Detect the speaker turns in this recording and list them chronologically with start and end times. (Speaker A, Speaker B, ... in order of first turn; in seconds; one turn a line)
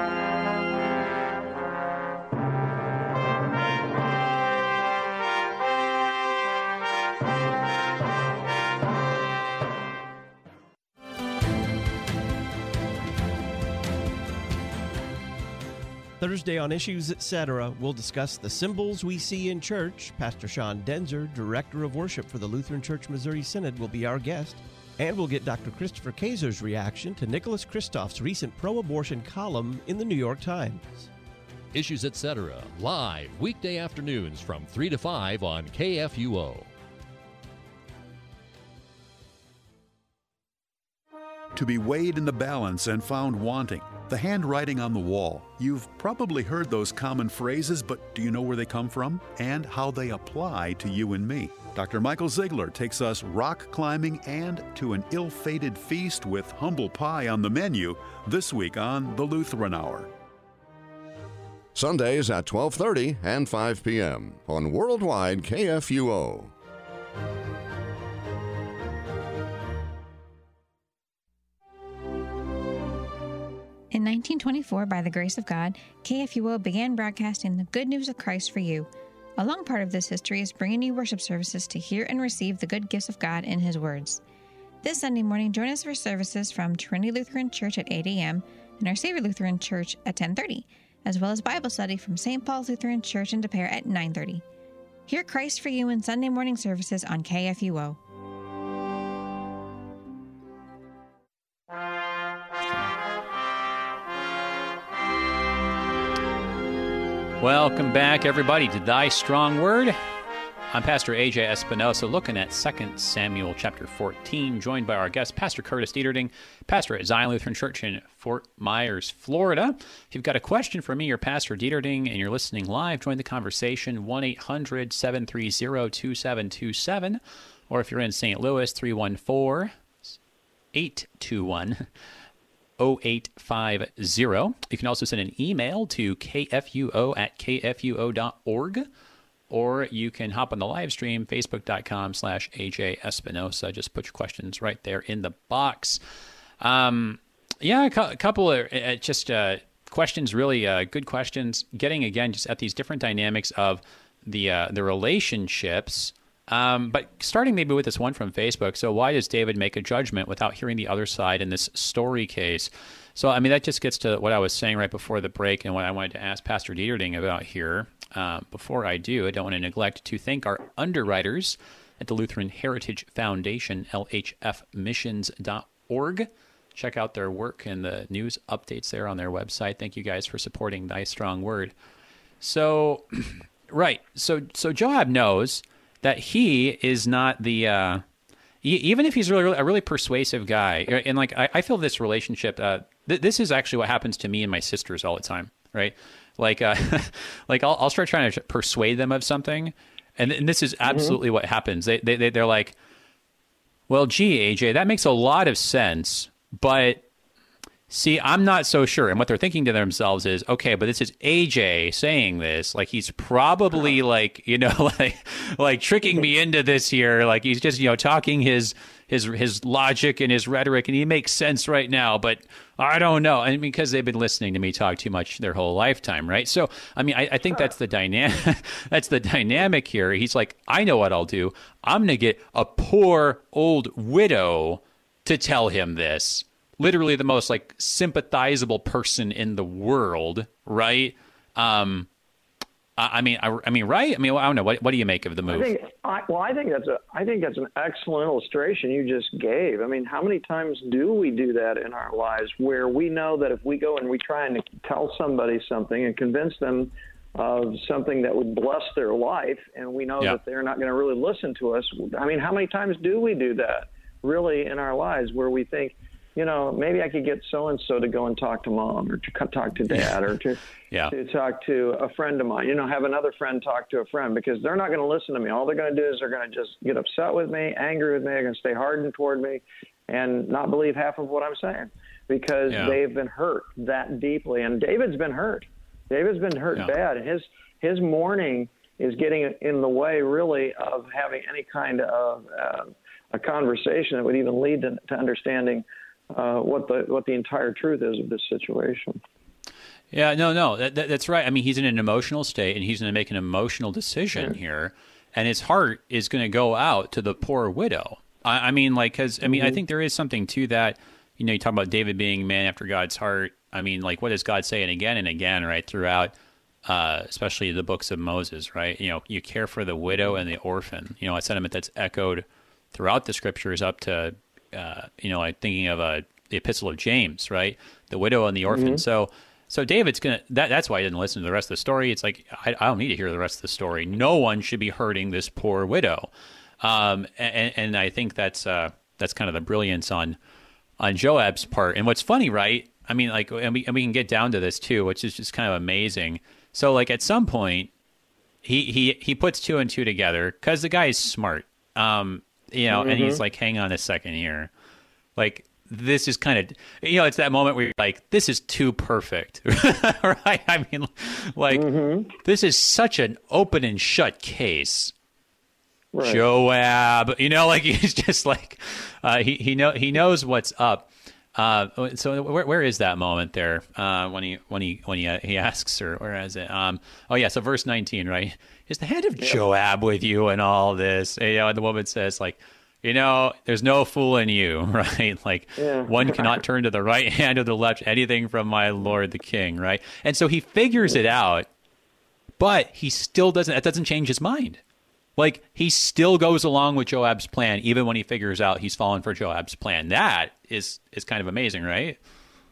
Speaker A: 16.2-31.1
Speaker B: 31.7-36.7
Speaker C: 41.5-60.1
Speaker D: 61.8-66.5
Speaker E: 73.9-84.2
Speaker E: 84.8-94.4
Speaker E: 95.1-98.0
Speaker F: 107.4-110.0
Speaker F: 110.7-129.8
Speaker F: 130.7-131.8
Speaker F: 132.8-138.9
Speaker F: 139.5-146.0
Speaker F: 146.6-181.8
Speaker F: 182.4-188.0
Speaker F: 188.6-202.8
Speaker G: 200.9-201.2
Speaker F: 203.9-207.1
Speaker F: 207.9-242.1
Speaker F: 243.0-245.7
Speaker G: 245.5-299.2
Speaker F: 282.7-283.0
Speaker F: 300.1-316.3
Speaker G: 309.5-309.8
Speaker F: 316.9-340.4
Speaker G: 328.7-329.0
Speaker F: 341.0-347.9
Speaker F: 348.6-354.7
Speaker G: 352.9-353.4
Speaker F: 355.4-365.1
Speaker G: 361.7-362.3
Speaker G: 366.1-366.4
Speaker F: 366.2-391.7
Speaker G: 385.8-386.5
Speaker F: 392.6-394.8
Speaker F: 395.4-402.2